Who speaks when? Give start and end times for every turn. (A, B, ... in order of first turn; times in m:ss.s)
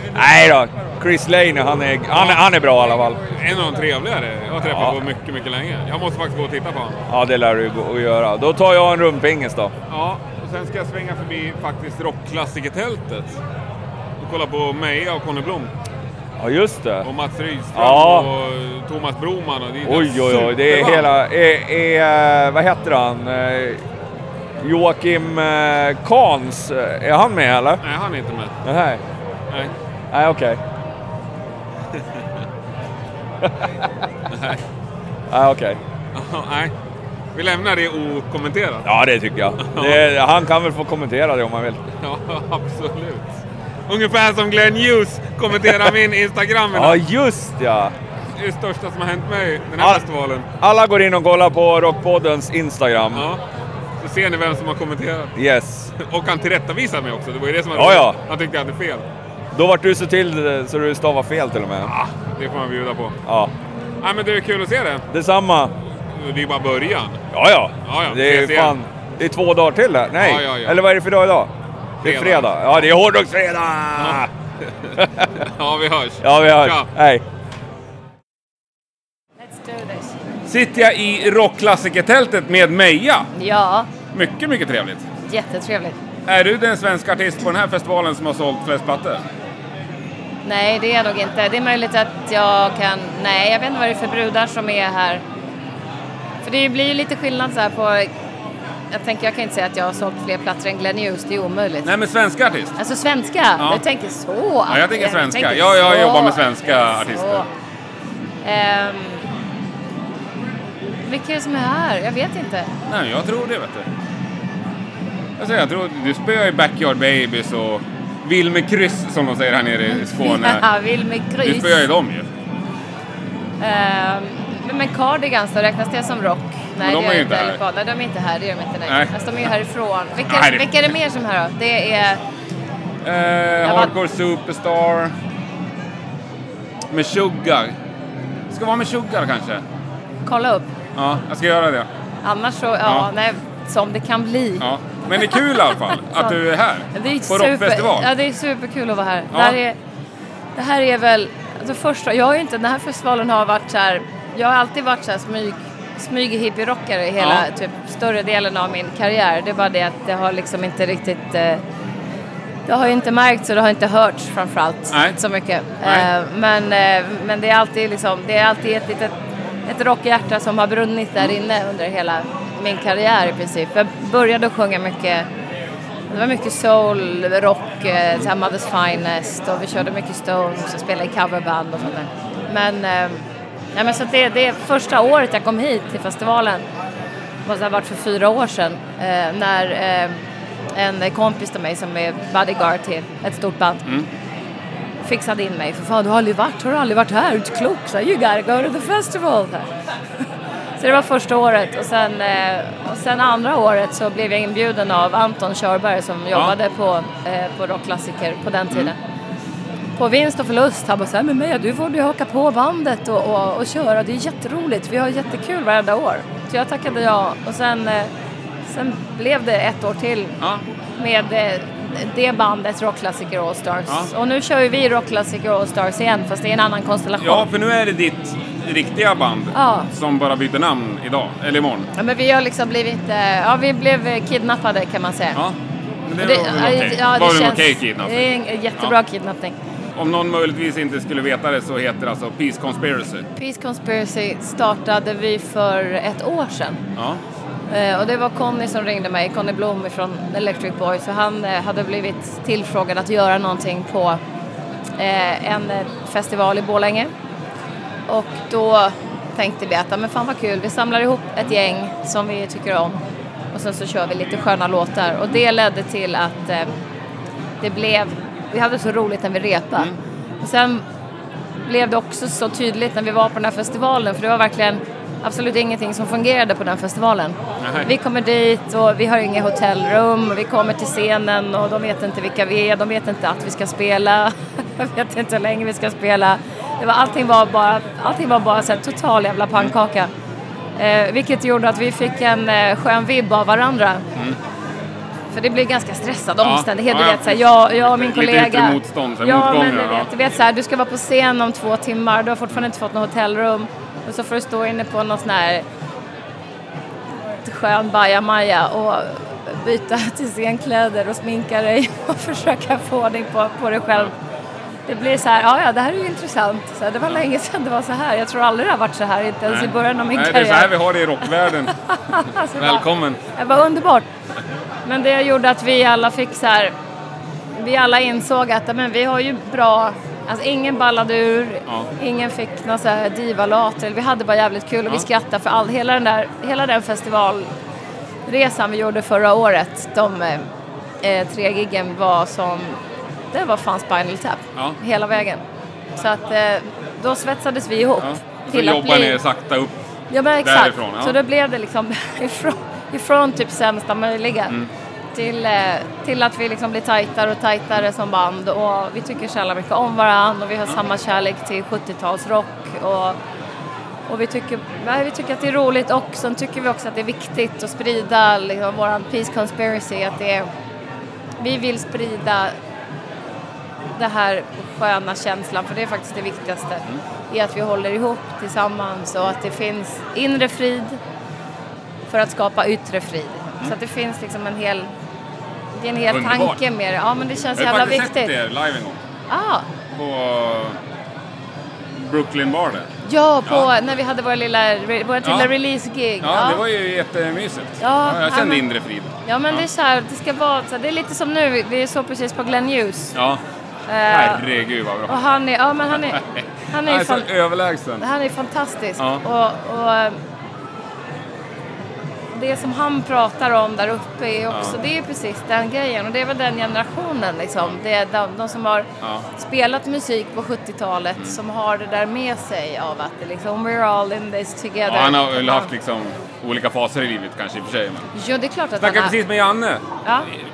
0:00.1-0:03.2 A
0:02.1-0:02.4 B
0:03.3-0:07.0 B
0:04.6-0:05.0 A
0:07.1-0:09.7 A
0:09.9-0:13.4 B
0:14.2-0:15.7 B
0:16.4-0:17.1 A
0:17.0-0:21.1 B
0:17.7-0:18.3 A
0:19.8-0:23.8 A
0:24.6-0:27.8 A
0:27.8-0:28.5 B
0:28.6-0:29.0 A
0:30.1-0:30.6 A
0:34.3-0:34.6 B
0:35.3-0:35.8 A
0:36.1-0:36.7 B
0:37.3-0:38.8 B
0:38.8-0:41.8 A
0:39.6-0:40.0 B
0:42.0-0:43.3 B
0:43.9-0:47.0 B
0:46.7-0:47.9 A
0:48.4-0:50.4 B
0:49.8-0:50.0 A
0:50.6-0:53.3 A
0:53.1-0:53.4 B
0:54.0-0:55.3 B
0:55.4-0:55.9 A
0:56.0-0:59.0 B
0:57.7-0:58.2 A
0:59.5-1:01.9 A
1:01.8-1:03.2 B
1:03.2-1:03.5 A
1:04.0-1:05.0 B
1:05.1-1:05.7 A
1:06.1-1:07.2 B
1:07.3-1:11.5 A
1:07.8-1:08.8 B
1:10.2-1:10.8 B
1:12.0-1:14.3 A
1:12.0-1:12.5 B
1:15.6-1:16.9 B
1:16.2-1:17.2 A
1:19.4-1:20.1 C
1:20.5-1:23.3 B
1:23.3-1:23.9 C
1:24.1-1:25.0 B
1:25.3-1:26.0 C
1:26.2-1:29.2 B
1:30.4-1:35.2 C
1:36.4-1:38.1 C
1:38.9-1:41.9 C
1:41.8-1:42.7 B
1:42.8-1:47.5 C
1:43.6-1:43.8 B
1:44.7-1:47.4 B
1:48.4-1:49.3 C
1:51.0-1:52.7 C
1:52.9-1:53.8 B
1:55.4-2:00.6 B
1:59.9-2:01.9 C
2:01.4-2:02.3 B
2:03.6-2:12.2 C
2:06.8-2:07.6 B
2:08.9-2:09.1 B
2:10.3-2:10.9 B
2:13.0-2:15.1 B
2:13.6-2:13.9 C
2:16.9-2:17.7 B
2:18.5-2:19.6 B
2:20.2-2:20.7 C
2:21.0-2:21.9 B
2:22.2-2:24.6 C
2:24.6-2:28.1 B
2:25.2-2:26.3 C
2:26.9-2:29.8 C
2:29.3-2:29.6 B
2:30.6-2:41.6 C
2:37.2-2:37.4 B
2:42.7-2:49.1 C
2:44.9-2:45.2 B
2:45.8-2:46.1 B
2:49.6-2:55.3 C
2:56.1-3:06.6 C
3:07.4-3:10.2 C
3:10.7-3:13.8 C
3:15.0-3:19.7 C
3:20.8-3:29.0 C
3:30.0-3:38.1 C
3:38.7-3:40.3 C
3:41.0-3:47.5 C
3:47.2-3:51.9 B
3:49.5-3:49.9 C
3:51.9-3:55.4 C
3:56.1-3:58.2 B
3:56.2-3:59.5 C
4:00.0-4:03.2 B
4:03.4-4:06.8 C
4:07.7-4:14.2 C
4:15.0-4:17.1 C
4:18.1-4:23.0 C
4:23.5-4:26.7 C
4:27.6-4:29.9 C
4:30.4-4:30.8 C
4:31.6-4:50.1 C
4:37.6-4:37.9 B
4:50.8-4:54.0 C
4:55.3-5:05.6 C
4:56.4-5:00.1 B
5:07.4-5:14.1 C
5:14.9-5:20.7 C
5:19.5-5:21.7 B
5:21.7-5:24.0 C
5:22.6-5:23.2 B
5:24.8-5:26.7 C
5:27.6-5:37.5 C
5:38.3-5:40.5 C
5:41.0-5:42.8 C
5:43.3-5:45.4 C
5:46.0-5:49.2 C
5:48.0-5:49.7 B
5:50.1-5:54.5 C
5:50.4-5:51.2 B
5:55.1-6:03.2 C
6:04.1-6:10.5 C
6:11.4-6:12.6 C
6:13.9-6:21.0 C
6:22.1-6:24.9 C
6:25.7-6:28.3 C
6:26.1-6:26.6 B
6:27.6-6:29.0 B
6:29.3-6:29.6 C
6:29.9-6:30.8 B
6:32.0-6:32.9 B
6:33.0-6:36.6 C
6:35.2-6:35.5 B
6:36.2-6:39.6 B
6:37.8-6:38.6 C
6:39.2-6:43.1 C
6:43.1-6:43.4 B
6:43.9-6:44.4 C
6:44.1-6:45.2 B
6:45.1-6:46.2 C
6:46.7-6:47.3 C
6:46.8-6:48.0 B
6:48.0-6:50.2 C
6:52.3-7:05.7 C
6:54.5-6:54.8 B
7:04.8-7:08.1 B
7:08.1-7:09.2 C
7:08.8-7:09.8 B